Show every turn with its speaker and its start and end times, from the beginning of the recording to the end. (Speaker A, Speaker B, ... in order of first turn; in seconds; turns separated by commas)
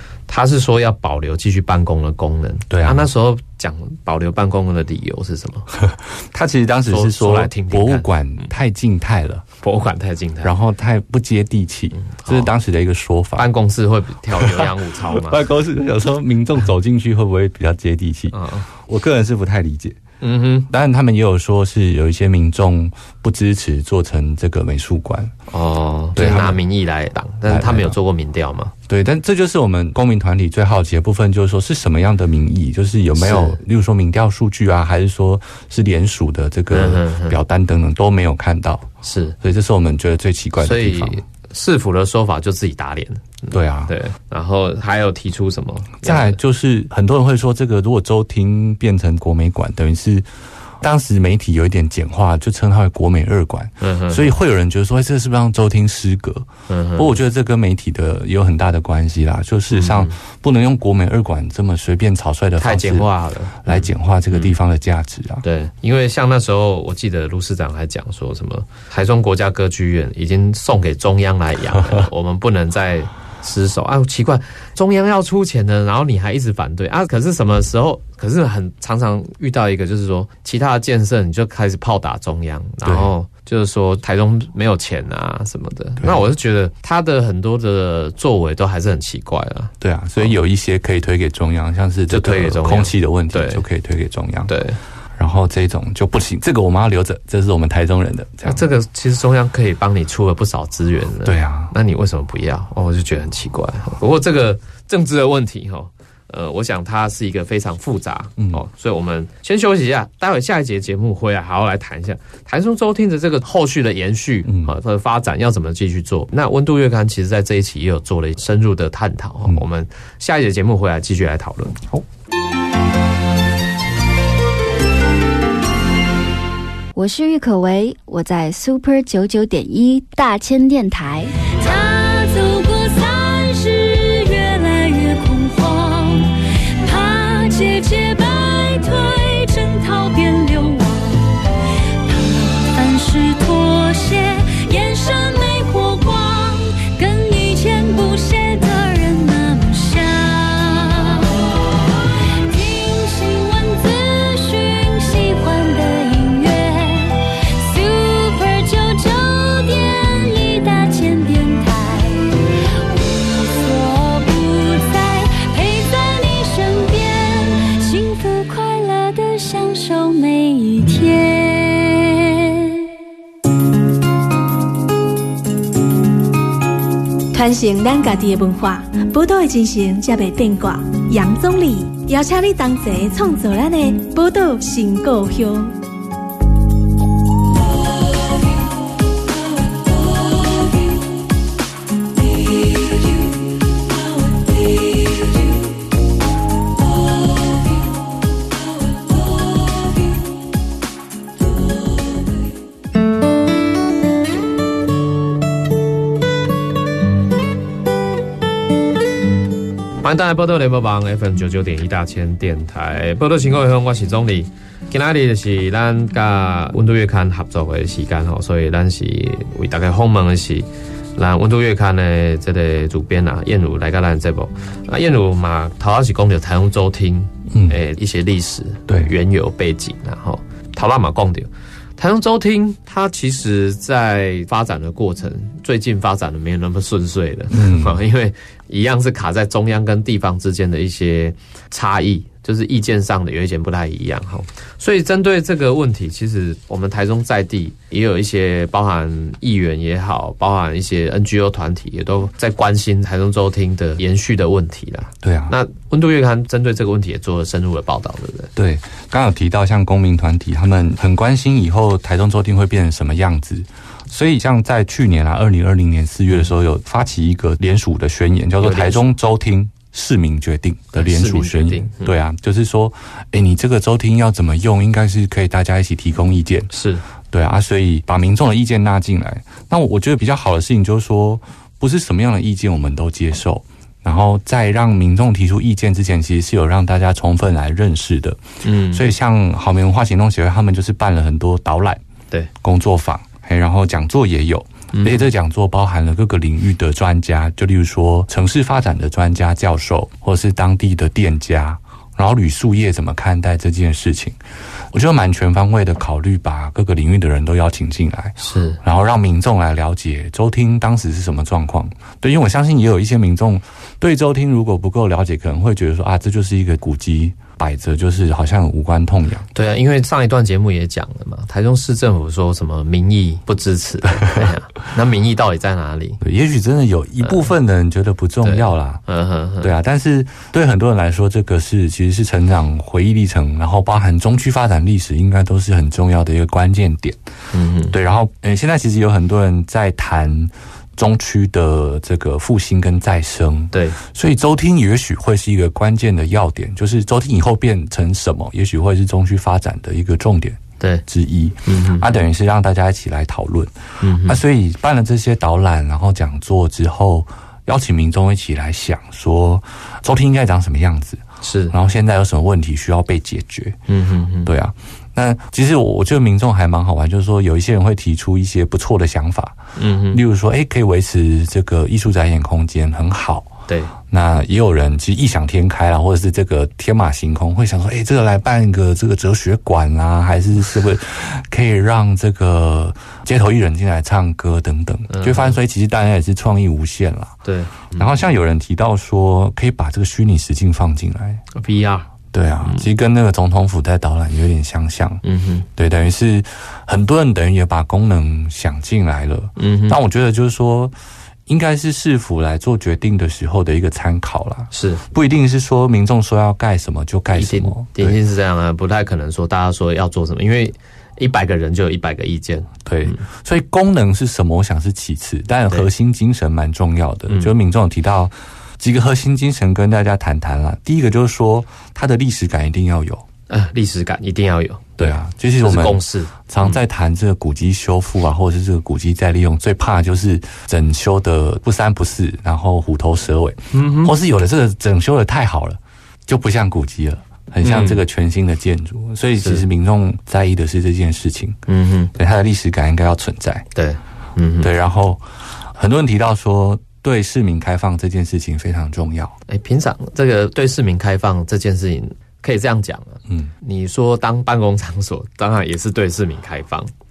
Speaker A: 0.3-5.7, Speaker B: 2.7-3.1, Speaker B: 5.8-9.4, Speaker A: 6.9-8.1, Speaker A: 9.6-10.5, Speaker B: 10.4-13.5, Speaker A: 11.9-12.5, Speaker A: 13.4-15.4, Speaker B: 14.3-20.0, Speaker A: 18.3-18.7, Speaker A: 20.2-20.7, Speaker B: 20.7-25.3, Speaker A: 25.5-28.7, Speaker B: 26.1-26.6, Speaker B: 27.5-27.9, Speaker B: 28.9-38.9, Speaker A: 33.2-33.6, Speaker A: 36.7-37.4, Speaker A: 39.0-39.4, Speaker B: 39.4-41.2, Speaker A: 40.6-46.4, Speaker B: 43.5-43.9, Speaker B: 46.0-50.3, Speaker B: 50.8-63.1, Speaker A: 53.8-54.4, Speaker A: 56.7-57.1, Speaker A: 59.7-60.2, Speaker A: 62.6-64.5, Speaker B: 63.6-65.4, Speaker A: 65.4-90.3, Speaker B: 82.8-83.1, Speaker B: 89.8-94.5, Speaker A: 92.1-93.7, Speaker A: 94.5-94.8, Speaker B: 95.2-98.7, Speaker A: 98.5-121.8, Speaker B: 101.2-101.7, Speaker B: 114.5-114.7, Speaker C: 127.0-131.3, Speaker D: 131.5-141.4, Speaker D: 142.0-172.9, Speaker E: 177.3-185.7, Speaker A: 210.0-258.5, Speaker B: 227.5-227.8, Speaker B: 237.5-238.0, Speaker B: 255.2-255.6, Speaker B: 258.6-276.7, Speaker A: 268.6-269.1, Speaker A: 270.9-272.1, Speaker A: 276.7-277.0, Speaker B: 277.3-292.0, Speaker A: 288.6-289.1, Speaker B: 292.6-304.4, Speaker A: 294.9-295.3, Speaker B: 304.9-319.5, Speaker A: 308.4-308.8, Speaker A: 319.5-326.2, Speaker B: 326.2-329.0, Speaker A: 328.4-329.7, Speaker B: 329.6-337.2, Speaker A: 337.5-337.9, Speaker B: 337.9-363.8, Speaker A: 343.7-344.0, Speaker A: 350.8-351.1, Speaker A: 351.7-352.1, Speaker A: 354.0-354.4, Speaker A: 361.4-361.7, Speaker A: 363.9-364.5, Speaker B: 364.4-369.6, Speaker A: 369.8-370.2, Speaker B: 370.1-373.6, Speaker A: 373.7-373.9, Speaker B: 374.1-387.4, Speaker A: 385.1-385.6, Speaker A: 387.4-388.2, Speaker B: 387.9-391.4, Speaker A: 391.6-392.1, Speaker B: 392.3-395.2, Speaker A: 395.2-395.7, Speaker B: 395.8-400.9, Speaker A: 399.6-400.0, Speaker B: 401.5-408.2, Speaker A: 404.7-405.0, Speaker A: 407.3-413.2, Speaker B: 412.9-423.2, Speaker A: 417.3-417.5, Speaker A: 423.5-426.8, Speaker B: 425.0-441.6, Speaker A: 433.7-434.1, Speaker A: 437.6-438.0, Speaker A: 441.7-442.1, Speaker B: 442.1-443.7, Speaker A: 443.8-444.7, Speaker B: 444.6-445.2, Speaker B: 445.7-449.4, Speaker A: 449.5-456.9